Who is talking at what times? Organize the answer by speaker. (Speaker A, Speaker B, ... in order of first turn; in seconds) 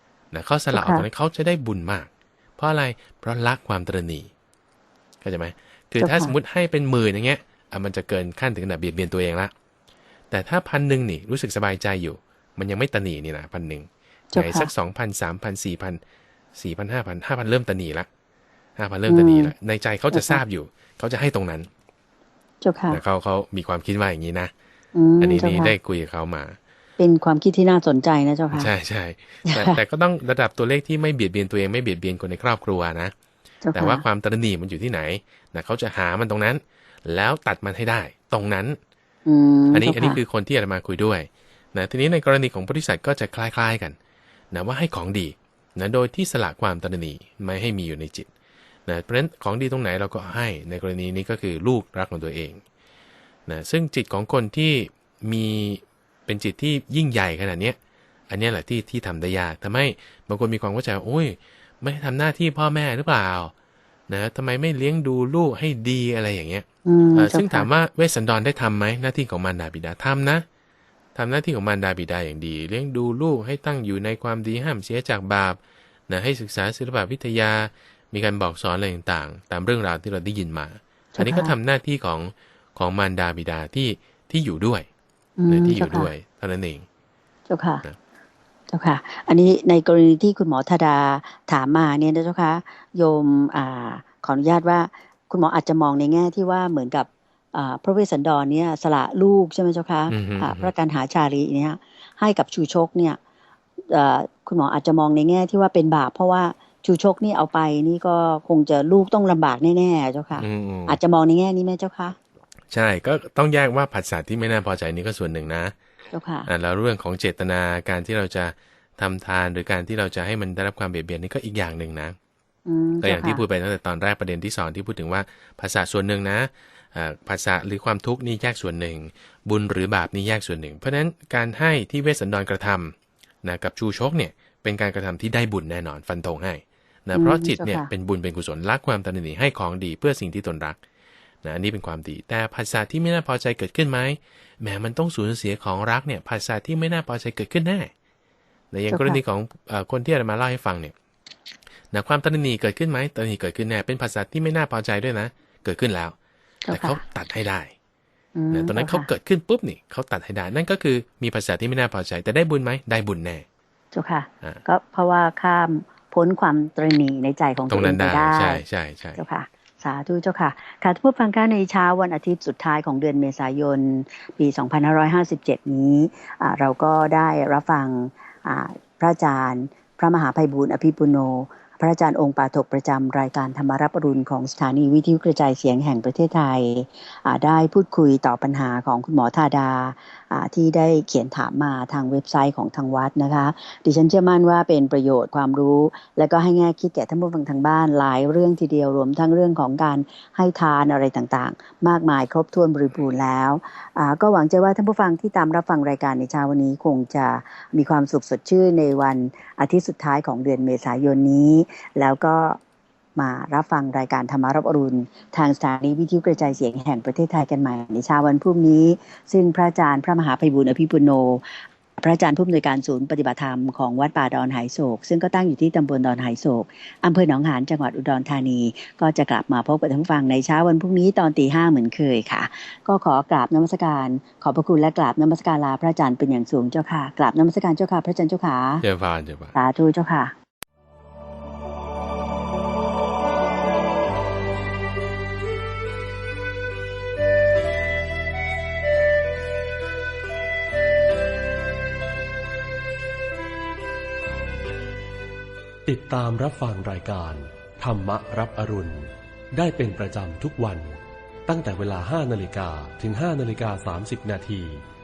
Speaker A: 0.3-4.3, 5.2-9.5, 10.3-16.0, 16.5-18.1, 18.8-21.7, 22.9-24.5, 25.2-26.6, 28.5-33.1, 33.8-38.8, 39.7-44.0, 44.5-48.3, 48.9-52.6, 53.5-57.8, 58.3-63.5, 64.1-70.5, 71.2-84.9, 85.5-86.9, 100.1-100.7, 110.4-111.0, 112.7-115.8, 116.5-122.2, 123.0-140.8, 141.4-147.9, 148.7-150.9, 151.9-156.2, 156.7-157.7, 158.5-163.4, 167.7-169.2, 238.8-239.6
Speaker B: 0.7-1.1, 6.0-6.3, 14.3-14.7, 19.1-19.5, 20.1-20.4, 22.6-23.0, 24.9-25.7, 27.0-28.7, 29.4-29.8, 33.6-34.0, 39.3-40.2, 66.8-67.7, 81.2-81.5, 85.4-86.1, 87.5-87.8, 88.7-103.2, 103.9-112.2, 116.1-116.5, 122.7-123.4, 137.1-137.9, 148.9-149.2, 156.7-157.0, 158.4-159.1, 163.9-168.6, 169.2-212.6, 213.2-221.4, 222.0-238.8, 239.6-240.3
Speaker C: 255.8-264.8